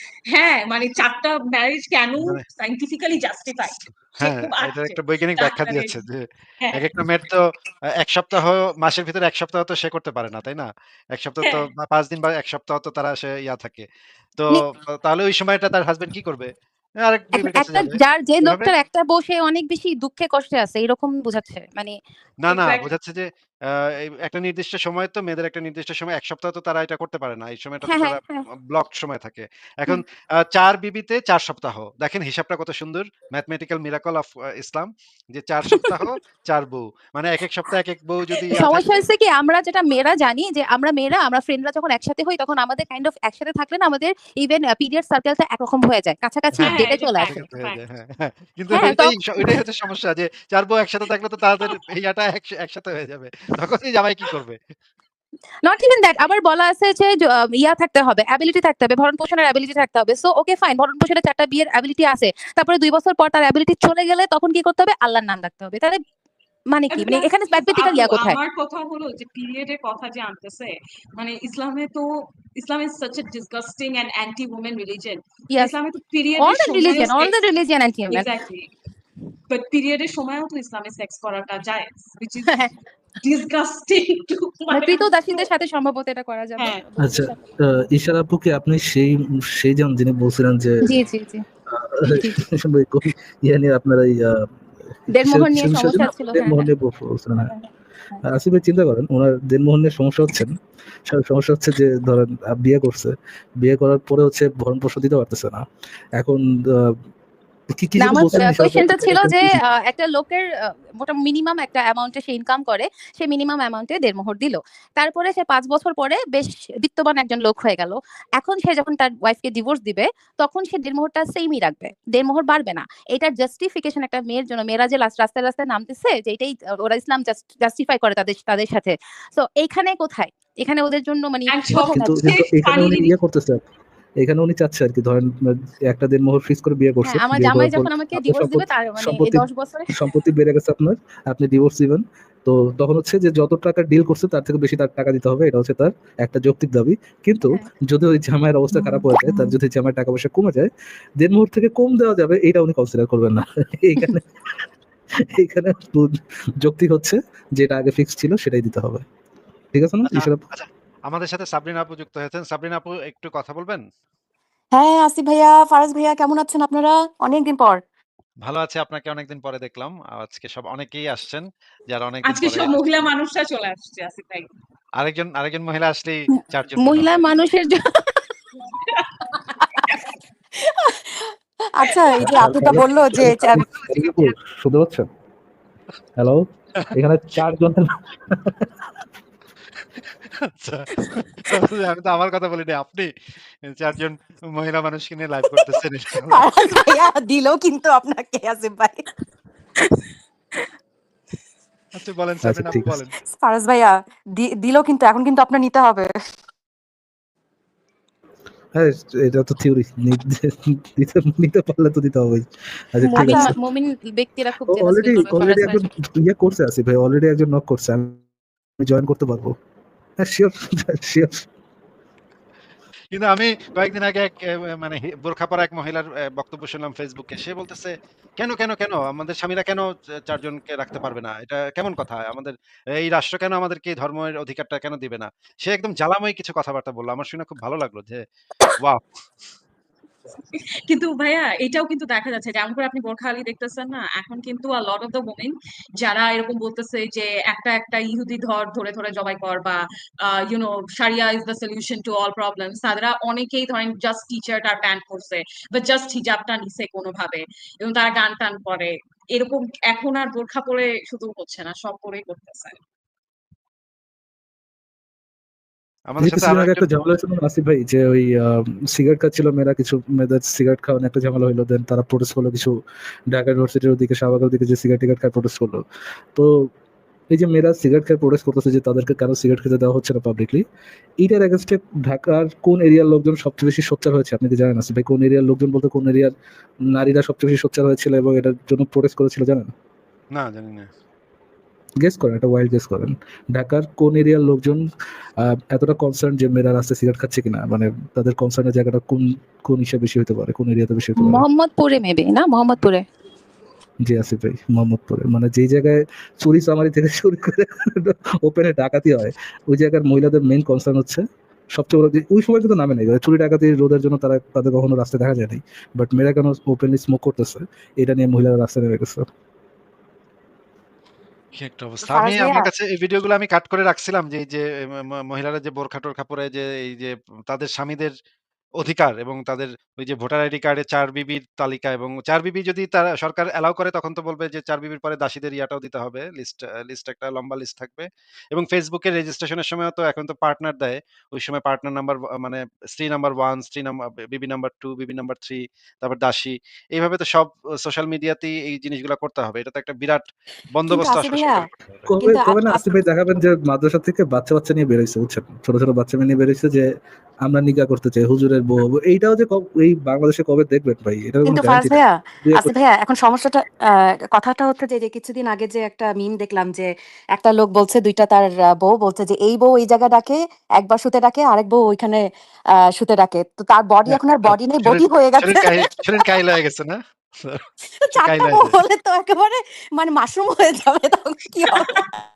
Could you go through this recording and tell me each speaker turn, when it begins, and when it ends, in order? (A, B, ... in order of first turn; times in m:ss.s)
0:00.3-0:06.0 A
0:04.2-0:07.4 B
0:08.0-0:13.8 B
0:14.4-0:16.5 B
0:17.0-0:18.7 B
0:17.3-0:21.9 C
0:22.4-0:38.9 B
0:22.5-0:22.9 A
0:27.8-0:28.4 C
0:35.7-0:36.0 C
0:38.5-0:47.4 C
0:46.5-0:54.6 B
0:46.6-0:47.8 A
0:48.7-0:49.5 C
0:55.6-1:06.0 C
1:06.7-1:08.4 C
1:06.9-1:17.4 A
1:16.4-1:18.3 C
1:18.1-1:18.6 A
1:19.5-1:22.7 A
1:23.2-1:25.4 A
1:24.7-1:27.5 C
1:26.6-1:26.8 A
1:27.0-1:30.8 D
1:30.8-1:31.4 C
1:31.7-1:34.4 D
1:32.1-1:32.4 C
1:35.1-1:36.7 C
1:35.2-1:37.5 D
1:37.5-1:38.2 C
1:38.3-1:40.6 D
1:41.1-1:45.6 D
1:46.2-1:47.0 D
1:47.7-1:49.4 D
1:48.0-2:12.2 C
2:11.5-2:13.1 A
2:11.7-2:13.6 D
2:14.2-2:34.4 D
2:17.0-2:20.2 C
2:35.3-2:39.0 D
2:39.7-2:40.4 D
2:40.1-2:43.8 B
2:44.7-2:47.8 E
2:48.4-2:52.8 B
2:52.2-2:54.5 A
2:55.0-2:57.1 B
2:56.4-2:58.2 C
2:58.7-3:00.2 A
3:00.8-3:03.7 E
3:02.2-3:05.1 D
3:06.2-3:08.8 D
3:10.6-3:13.1 B
3:13.6-3:16.5 B
3:16.3-3:19.0 E
3:21.9-3:23.1 B
3:22.4-3:22.9 D
3:23.3-3:26.1 E
3:28.7-3:33.6 D
3:33.0-3:35.9 C
3:33.1-3:33.5 E
3:34.7-3:38.2 D
3:38.8-3:39.5 D
3:40.2-3:41.4 D
3:43.1-3:58.2 B
4:00.9-4:22.8 A
4:26.1-4:26.8 B
4:26.2-4:32.7 D
4:33.3-4:35.8 D
4:36.3-4:36.7 D
4:37.3-4:40.6 D
4:41.2-4:46.3 D
4:46.9-4:49.7 D
4:50.3-4:50.9 B
4:52.0-4:54.8 D
4:55.4-5:01.4 D
5:01.2-5:03.0 C
5:04.0-5:19.2 D
5:21.6-5:28.1 B
5:22.0-5:22.7 E
5:28.8-5:51.7 B
5:50.9-5:51.6 E
5:52.0-5:56.8 D
5:52.2-5:53.0 E
5:57.4-6:02.7 D
6:01.5-6:12.2 E
6:12.9-6:16.0 E
6:14.1-6:17.6 B
6:18.0-6:22.2 E
6:18.2-6:18.8 B